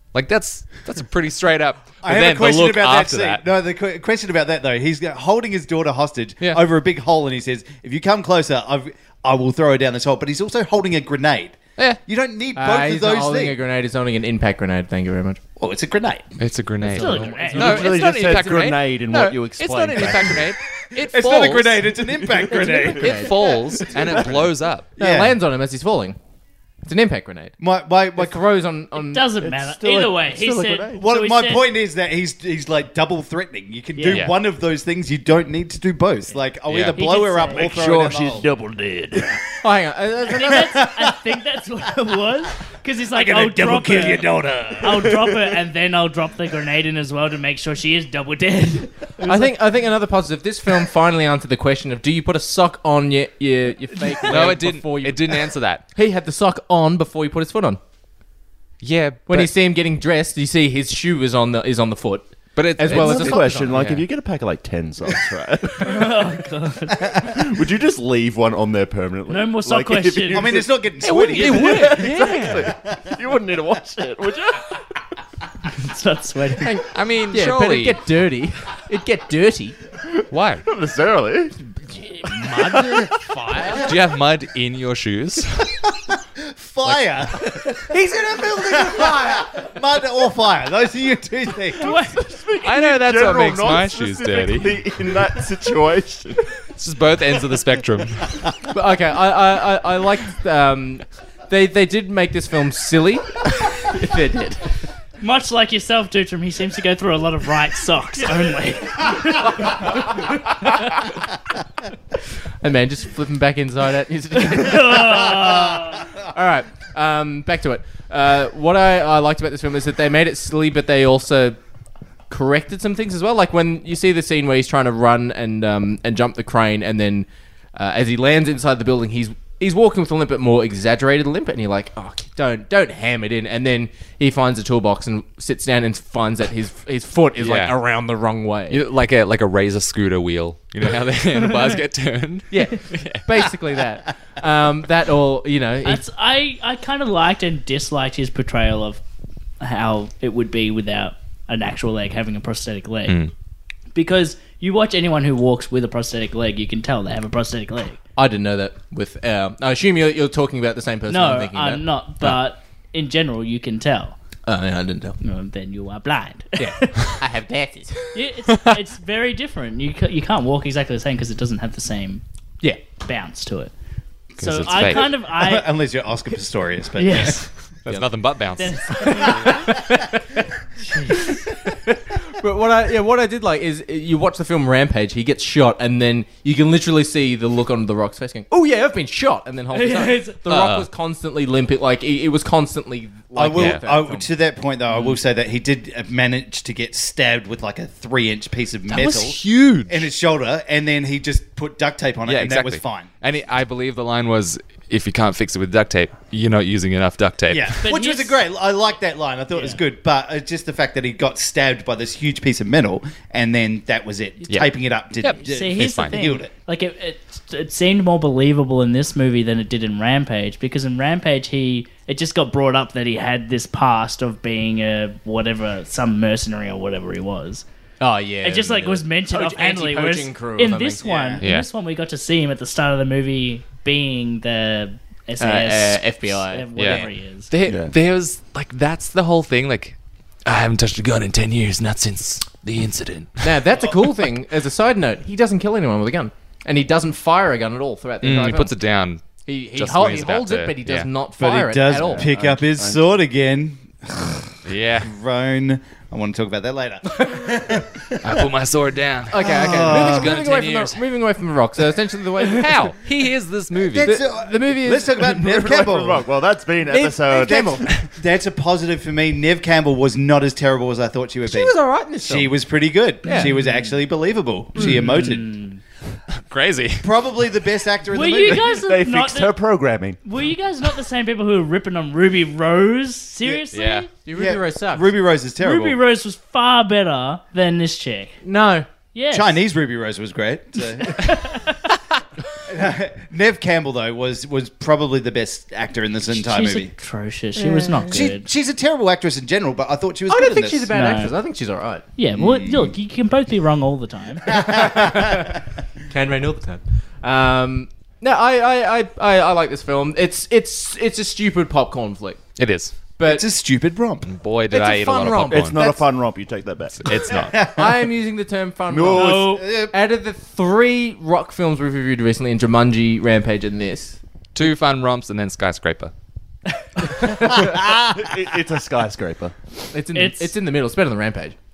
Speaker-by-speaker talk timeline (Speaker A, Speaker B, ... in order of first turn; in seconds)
Speaker A: 0.1-3.4, 16.4-21.8, 23.0-24.9, 34.1-34.3, 36.7-37.0, 54.3-55.8, 58.8-59.5, 62.5-64.0, 71.0-72.7, 76.9-78.0, 80.3-80.6, 83.6-85.7, 92.6-94.8, 96.8-98.3, 137.4-137.8, 138.7-143.2, 153.1-153.3, 174.4-175.2, 177.8-178.9, 190.5-190.9, 193.5-193.8, 198.9-200.1, 202.2-207.8, 214.5-216.2, 231.4-231.7, 236.8-243.5, 248.2-251.1, 254.6-255.1, 258.2-261.0, 262.5-264.1, 276.4-277.1, 283.7-284.1, 312.6-313.0, 314.2-315.8, 317.0-317.5, 324.5-326.1
Speaker B: 2.0-13.6, 15.6-16.3, 20.9-23.4, 25.0-25.4, 27.6-28.4, 31.0-38.5, 40.5-41.1, 43.1-45.2, 70.3-72.2, 72.7-73.2, 86.1-92.0, 174.7-177.4, 193.3-203.1, 207.5-216.5, 231.0-231.4, 251.4-254.5, 255.0-258.5, 259.4-260.4, 263.9-266.2, 267.3-275.6, 277.0-278.8, 284.3-286.0, 289.3-291.6, 292.7-296.9, 298.1-300.9, 302.3-302.9, 304.5-305.2, 313.2-314.3, 317.3-318.0, 319.3-319.9, 327.4-328.4
Speaker C: 12.5-15.4, 16.8-17.7, 22.5-23.4, 24.9-26.2, 26.8-27.6, 28.1-29.3, 39.6-40.6, 49.2-57.8, 59.3-64.0, 76.6-79.8, 82.3-83.8, 87.9-89.2, 98.7-104.7, 112.6-115.5, 116.2-121.6, 122.3-138.8, 142.5-146.0, 158.2-161.8, 164.4-165.2, 166.6-168.1, 178.9-180.3, 181.9-194.3, 228.0-231.0, 235.4-237.1, 243.4-248.8, 249.4-252.3, 259.3-263.0, 264.0-265.3, 266.8-267.9, 271.4-272.6, 273.2-273.5, 284.1-285.1, 288.4-288.9, 297.6-298.2, 300.3-302.0, 304.6-305.5, 306.1-312.4, 313.1-313.4, 314.7-316.0, 317.6-324.2, 329.9-331.6
Speaker D: 16.8-17.8, 28.9-31.6, 34.0-34.2, 36.9-37.7, 40.3-49.1, 65.8-67.3, 69.3-70.5, 75.7-76.8, 91.8-92.1, 105.2-110.2, 114.4-116.0, 145.8-149.0, 149.6-153.2, 153.9-158.0, 161.1-164.2, 165.2-167.1, 168.1-172.2, 173.0-173.7, 174.4-175.7, 177.0-177.5, 178.6-179.5, 180.9-181.3, 189.7-190.4, 207.8-208.4, 209.6-209.8, 215.3-227.6, 228.4-237.5, 273.3-273.9, 274.8-275.8, 278.1-279.5, 280.2-284.1, 285.6-288.4, 289.1-289.6, 291.0-291.9, 296.3-298.5, 300.9-301.3, 302.1-304.6, 330.1-330.5
Speaker E: 17.5-20.5, 22.2-22.5, 23.2-24.5, 29.4-31.0, 37.5-39.2, 62.9-66.2, 67.2-74.7, 80.6-81.6, 92.4-96.4, 237.7-237.9, 251.9-253.2, 265.2-267.8, 278.2-280.2, 315.5-317.0, 318.9-319.6, 327.6-329.5